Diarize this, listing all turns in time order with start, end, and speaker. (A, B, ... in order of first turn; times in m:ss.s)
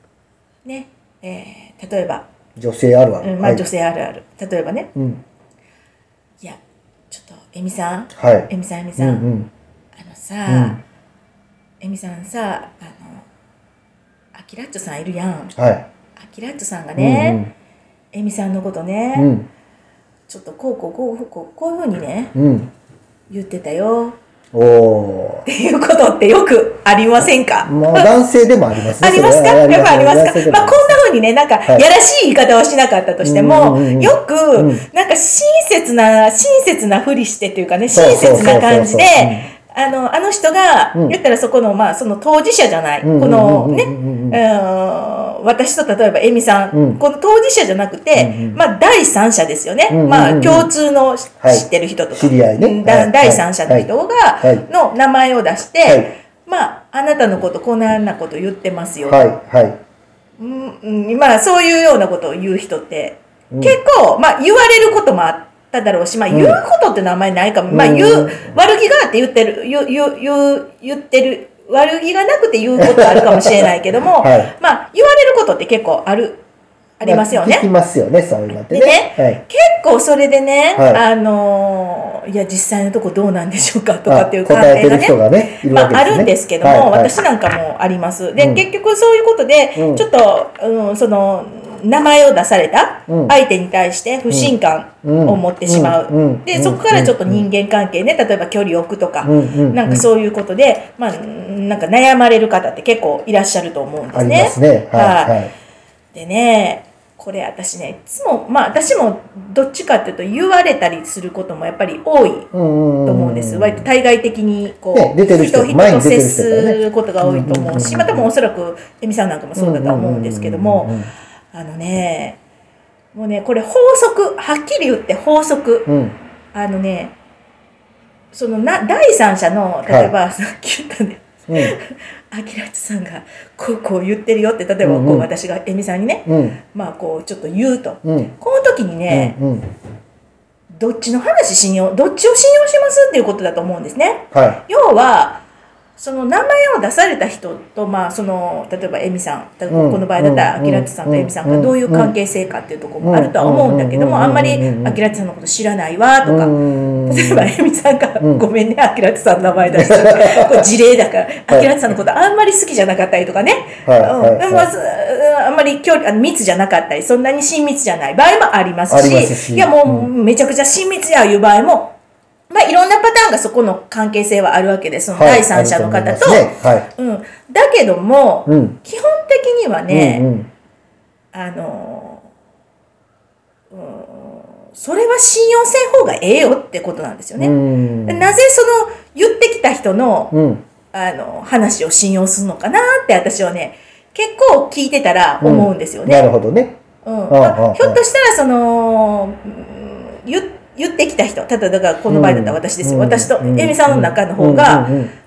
0:00.6-0:02.2 A
0:02.6-0:03.6 B
0:03.2-0:04.9 A
0:04.9-0:05.2 B
0:07.1-0:09.2 A
0:08.1-0:09.5 B
0:10.0-0:10.8 A
0:10.5-0:10.8 B
0:11.8-0:13.2 A
0:14.3-0:15.5 A
0:15.6-0:15.8 B
0:16.2-0:17.4 A
0:17.0-0:17.5 B
0:18.1-0:19.3 A
0:19.1-0:19.5 B
0:20.3-0:22.4 A
0:22.3-0:22.7 B
0:23.3-0:24.2 A
0:24.5-0:25.5 B
0:25.4-0:28.1 A
0:27.6-0:31.0 B
0:29.0-0:59.2 A
0:33.2-0:34.9 B
0:37.9-0:39.5 B
0:43.0-0:44.4 B
0:46.7-0:47.0 B
0:48.1-0:48.6 B
0:49.9-0:50.7 B
0:51.4-0:54.6 B
0:55.8-0:56.1 B
0:59.0-0:59.8 B
1:00.4-1:16.4 A
1:03.5-1:03.8 B
1:06.3-1:06.6 B
1:07.7-1:08.6 B
1:12.8-1:14.5 B
1:17.0-1:17.6 A
1:17.0-1:19.4 B
1:18.6-1:45.4 A
1:20.7-1:21.0 B
1:24.1-1:27.1 B
1:28.4-1:28.6 B
1:29.7-1:30.0 B
1:33.1-1:33.3 B
1:34.3-1:37.4 B
1:39.2-1:40.1 B
1:44.1-1:45.5 B
1:46.1-1:52.5 A
1:52.5-1:53.9 B
1:53.0-2:01.0 A
1:54.9-1:58.3 B
1:59.6-2:01.1 B
2:01.5-2:02.4 A
2:03.1-2:05.9 A
2:05.9-2:06.2 B
2:06.5-2:07.1 A
2:08.3-2:19.4 A
2:09.8-2:10.1 B
2:11.5-2:11.7 B
2:14.8-2:15.3 B
2:16.2-2:16.6 B
2:18.0-2:18.3 B
2:19.1-2:19.7 B
2:20.7-2:25.4 A
2:24.3-2:24.6 B
2:26.0-2:52.0 A
2:29.7-2:32.1 B
2:33.0-2:35.0 B
2:36.2-2:37.5 B
2:38.2-2:38.4 B
2:39.7-2:40.7 B
2:41.5-2:41.7 B
2:43.8-2:44.7 B
2:48.9-2:50.1 B
2:52.5-3:00.3 A
2:55.1-2:56.9 B
2:58.5-2:58.8 B
2:59.9-3:00.5 B
3:01.3-3:02.2 A
3:03.7-3:10.4 A
3:07.4-3:08.4 B
3:10.3-3:10.6 B
3:10.9-3:16.2 A
3:15.4-3:18.0 B
3:17.0-3:24.9 A
3:22.1-3:25.1 B